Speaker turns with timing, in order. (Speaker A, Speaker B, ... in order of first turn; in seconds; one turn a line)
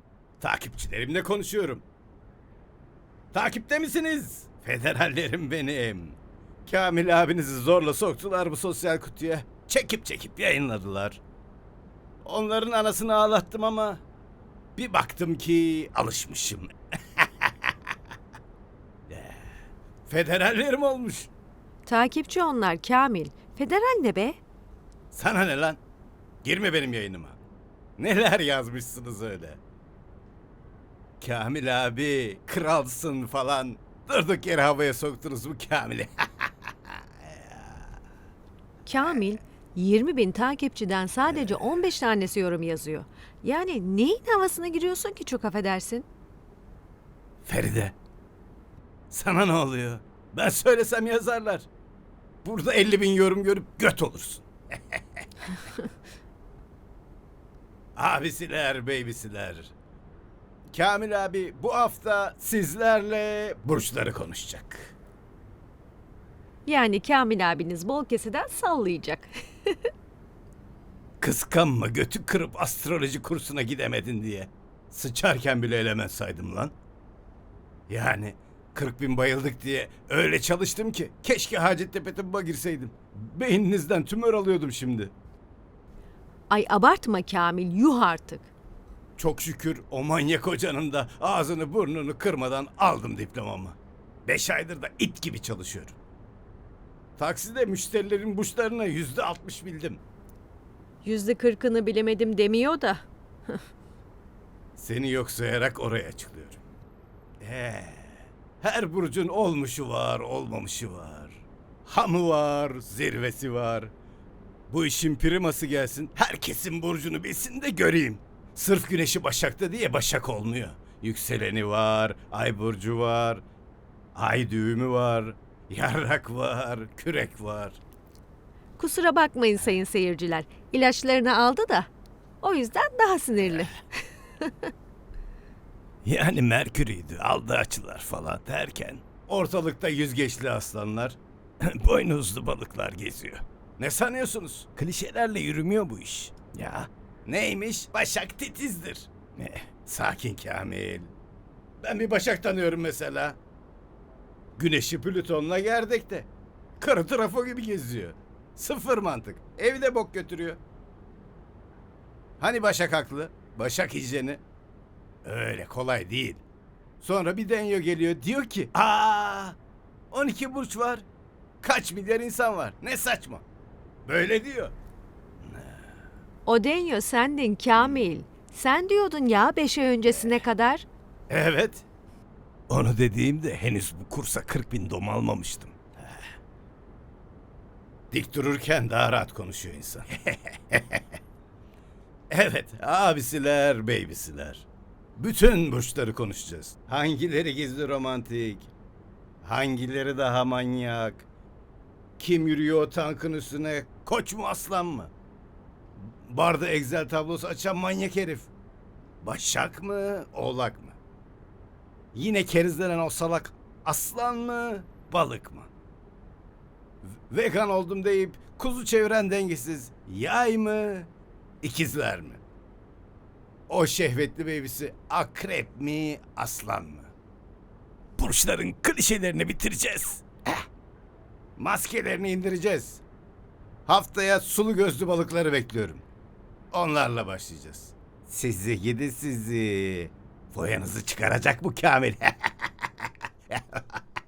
Speaker A: 0.4-1.8
Speaker A: 3.3-11.2
Speaker A: 12.2-14.0
Speaker A: 14.8-17.5
Speaker A: 19.1-19.4
Speaker A: 20.1-21.3
Speaker B: 21.9-24.4
Speaker A: 25.1-25.8
Speaker A: 26.4-27.4
Speaker A: 28.0-29.6
Speaker A: 31.2-36.9
Speaker B: 38.8-46.0
Speaker A: 41.3-41.5
Speaker A: 47.4-47.9
Speaker A: 49.1-51.7
Speaker A: 52.4-55.0
Speaker A: 58.0-59.7
Speaker A: 60.7-64.9
Speaker B: 66.7-69.8
Speaker A: 71.2-76.7
Speaker A: 77.9-85.1
Speaker B: 86.5-88.5
Speaker A: 89.2-95.9
Speaker A: 97.2-100.0
Speaker B: 101.0-103.0
Speaker A: 104.8-106.6
Speaker A: 107.4-113.9
Speaker A: 114.7-123.4
Speaker A: 124.1-127.8
Speaker B: 128.8-131.9
Speaker B: 132.4-133.8
Speaker A: 136.0-151.1
Speaker A: 151.8-153.4
Speaker A: 154.6-160.6
Speaker A: 162.4-164.4
Speaker A: 165.2-166.4
Speaker A: 167.0-169.6
Speaker A: 170.1-171.0
Speaker A: 171.6-173.4
Speaker A: 174.0-174.7
Speaker A: 175.4-175.8
Speaker B: 176.4-180.8
Speaker A: 177.7-178.1
Speaker A: 180.2-180.4
Speaker A: 181.3-181.8
Speaker A: 182.7-186.2
Speaker A: 188.1-191.0
Speaker A: 192.3-198.7
Speaker A: 199.4-201.2
Speaker A: 202.2-205.1
Speaker A: 206.0-208.5
Speaker A: 209.2-211.0
Speaker A: 212.1-215.7
Speaker A: 217.3-221.1
Speaker A: 221.6-222.4
Speaker A: 223.7-227.1
Speaker A: 228.2-230.6
Speaker A: 231.6-233.0
Speaker A: 233.9-236.0
Speaker A: 236.7-242.9
Speaker A: 243.5-244.0